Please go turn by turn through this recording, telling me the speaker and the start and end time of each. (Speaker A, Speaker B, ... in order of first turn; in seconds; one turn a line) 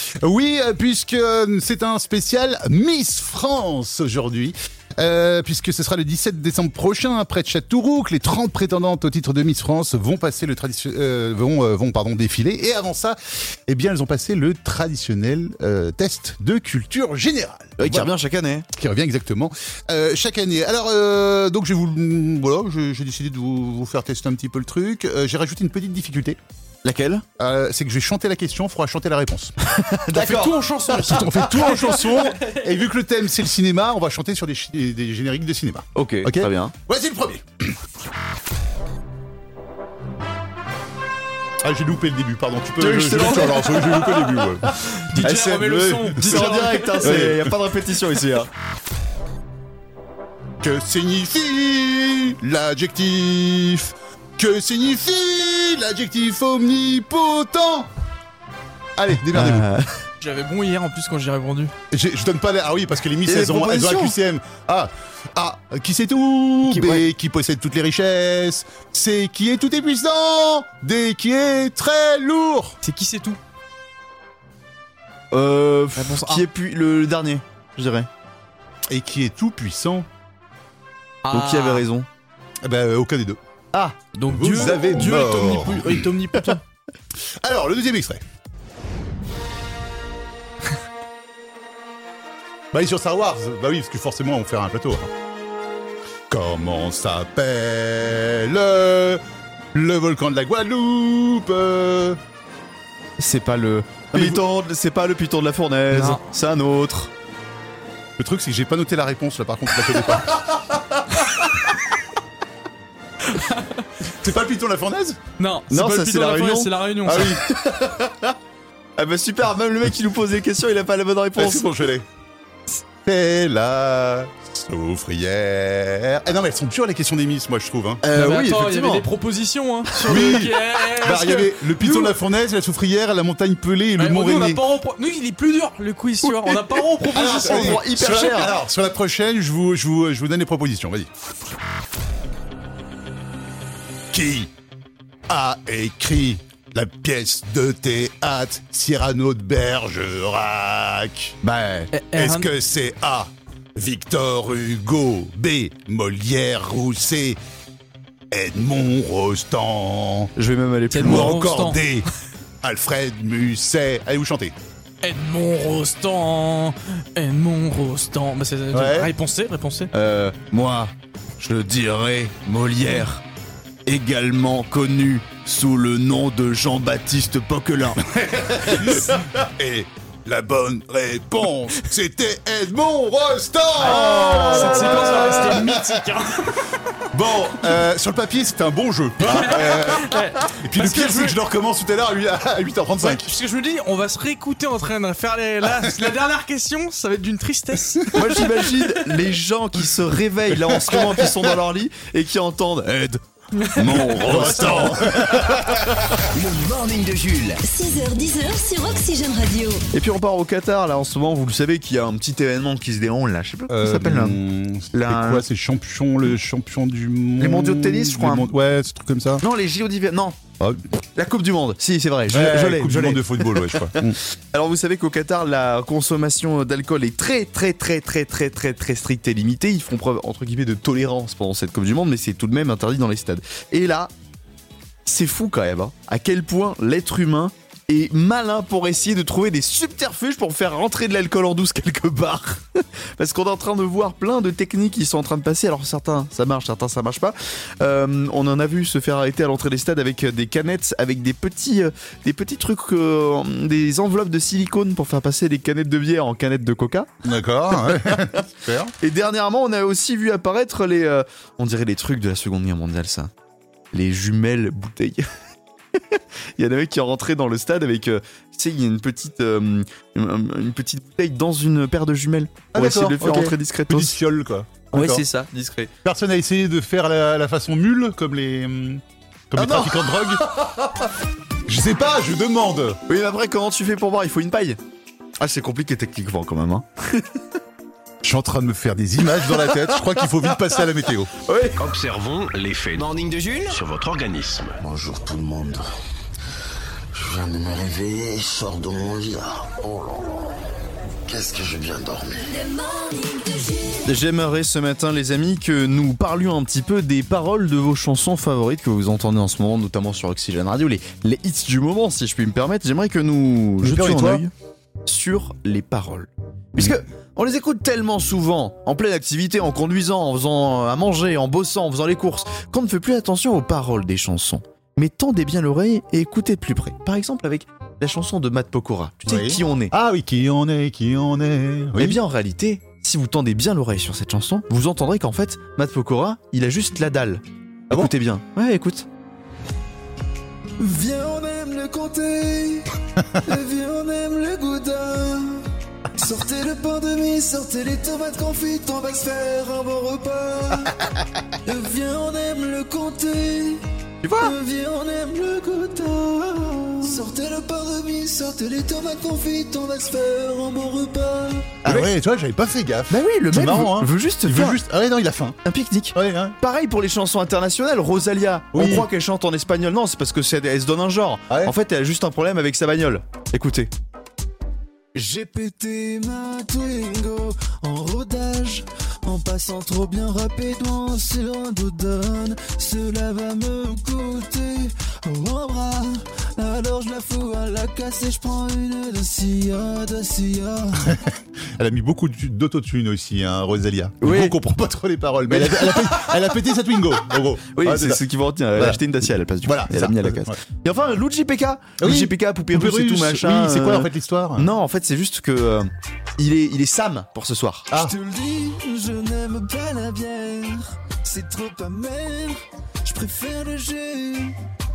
Speaker A: 0.2-18.1
Speaker B: 17.8-18.6
Speaker A: 18.7-26.4
Speaker B: 26.8-27.2
Speaker A: 27.4-29.5
Speaker B: 29.6-30.6
Speaker C: 30.1-32.6
Speaker A: 30.9-37.8
Speaker B: 35.9-36.7
Speaker A: 41.6-44.8
Speaker B: 42.8-44.3
Speaker C: 45.0-47.2
Speaker B: 45.2-48.5
Speaker A: 46.0-47.5
Speaker A: 50.6-57.9
Speaker A: 59.0-59.7
Speaker B: 59.3-59.9
Speaker C: 60.2-61.7
Speaker A: 61.9-72.8
Speaker B: 63.2-64.1
Speaker B: 66.7-67.0
Speaker C: 72.8-73.4
Speaker B: 75.3-78.1
Speaker C: 76.0-76.4
Speaker A: 78.9-80.1
Speaker C: 81.2-81.9
Speaker B: 81.3-82.1
Speaker A: 82.6-83.4
Speaker C: 84.1-86.6
Speaker A: 84.3-86.1
Speaker A: 87.4-88.2
Speaker A: 92.7-95.1
Speaker A: 96.3-99.2
Speaker A: 99.7-102.2
Speaker B: 103.2-107.1
Speaker A: 104.1-104.4
Speaker C: 105.9-106.2
Speaker A: 108.2-110.8
Speaker C: 113.3-113.8
Speaker A: 114.2-115.2
Speaker C: 115.4-117.4
Speaker B: 115.7-118.3
Speaker A: 117.1-117.4
Speaker B: 119.0-121.7
Speaker A: 121.4-122.0
Speaker A: 123.0-128.0
Speaker B: 128.0-129.1
Speaker C: 128.1-132.1
Speaker A: 130.0-134.6
Speaker C: 134.0-137.8
Speaker B: 136.2-138.5
Speaker A: 137.1-141.1
Speaker A: 144.1-144.5
Speaker A: 145.3-151.4
Speaker B: 151.4-151.9
Speaker C: 151.9-152.5
Speaker A: 152.1-157.4
Speaker A: 158.3-160.3
Speaker B: 160.3-161.4
Speaker C: 160.9-161.8
Speaker A: 161.0-162.1
Speaker A: 162.6-164.5
Speaker C: 165.0-169.9
Speaker A: 168.7-169.1
Speaker B: 169.9-173.2
Speaker B: 173.8-179.2
Speaker A: 178.1-186.0
Speaker C: 183.8-186.7
Speaker B: 183.9-185.5
Speaker A: 187.1-193.3
Speaker C: 189.2-191.4
Speaker C: 193.0-198.9
Speaker B: 198.1-203.2
Speaker A: 200.7-201.3
Speaker C: 203.6-204.8
Speaker B: 203.8-205.4
Speaker A: 204.1-206.0
Speaker D: 206.3-207.6
Speaker E: 207.6-209.8
Speaker B: 209.9-214.4
Speaker A: 213.7-219.4
Speaker B: 214.9-215.4
Speaker B: 217.4-218.5
Speaker B: 219.4-220.4
Speaker B: 221.1-234.1
Speaker A: 222.3-224.2
Speaker B: 235.1-257.1
Speaker A: 257.2-258.9
Speaker B: 257.7-258.5
Speaker B: 259.0-263.3
Speaker B: 263.9-265.2
Speaker B: 265.9-274.2
Speaker A: 272.7-275.2
Speaker B: 274.9-275.9
Speaker A: 276.0-280.4
Speaker B: 279.6-280.9
Speaker A: 281.7-283.0
Speaker B: 283.1-284.8
Speaker B: 285.4-287.4
Speaker A: 288.2-291.3
Speaker B: 289.4-290.6
Speaker B: 291.4-291.8
Speaker F: 291.8-294.8
Speaker D: 292.9-293.8
Speaker G: 294.8-295.9
Speaker G: 297.1-300.5
Speaker G: 301.2-302.5
Speaker E: 302.4-304.1
Speaker B: 304.1-314.5
Speaker A: 313.8-314.4
Speaker B: 315.1-329.9
Speaker A: 329.2-332.2
Speaker B: 332.0-339.1
Speaker H: 340.8-342.8
Speaker B: 341.1-342.8
Speaker B: 343.4-345.3
Speaker H: 343.5-345.6
Speaker B: 346.2-350.7
Speaker H: 346.3-350.9
Speaker B: 351.7-362.1
Speaker H: 351.8-353.8
Speaker H: 354.5-361.7
Speaker A: 361.8-365.6
Speaker B: 363.1-364.8
Speaker B: 365.6-373.9
Speaker A: 366.1-366.6
Speaker A: 368.7-369.1
Speaker B: 375.1-384.6
Speaker H: 375.3-378.7
Speaker H: 379.3-390.8
Speaker B: 385.4-386.0
Speaker B: 386.6-391.0
Speaker A: 391.0-398.2
Speaker B: 394.2-394.6
Speaker B: 395.5-396.4
Speaker B: 397.7-408.6
Speaker A: 398.8-399.0
Speaker A: 399.6-400.6
Speaker A: 402.0-404.7
Speaker A: 407.9-408.1
Speaker H: 408.3-412.5
Speaker B: 409.3-409.6
Speaker B: 413.0-413.8
Speaker H: 413.2-414.5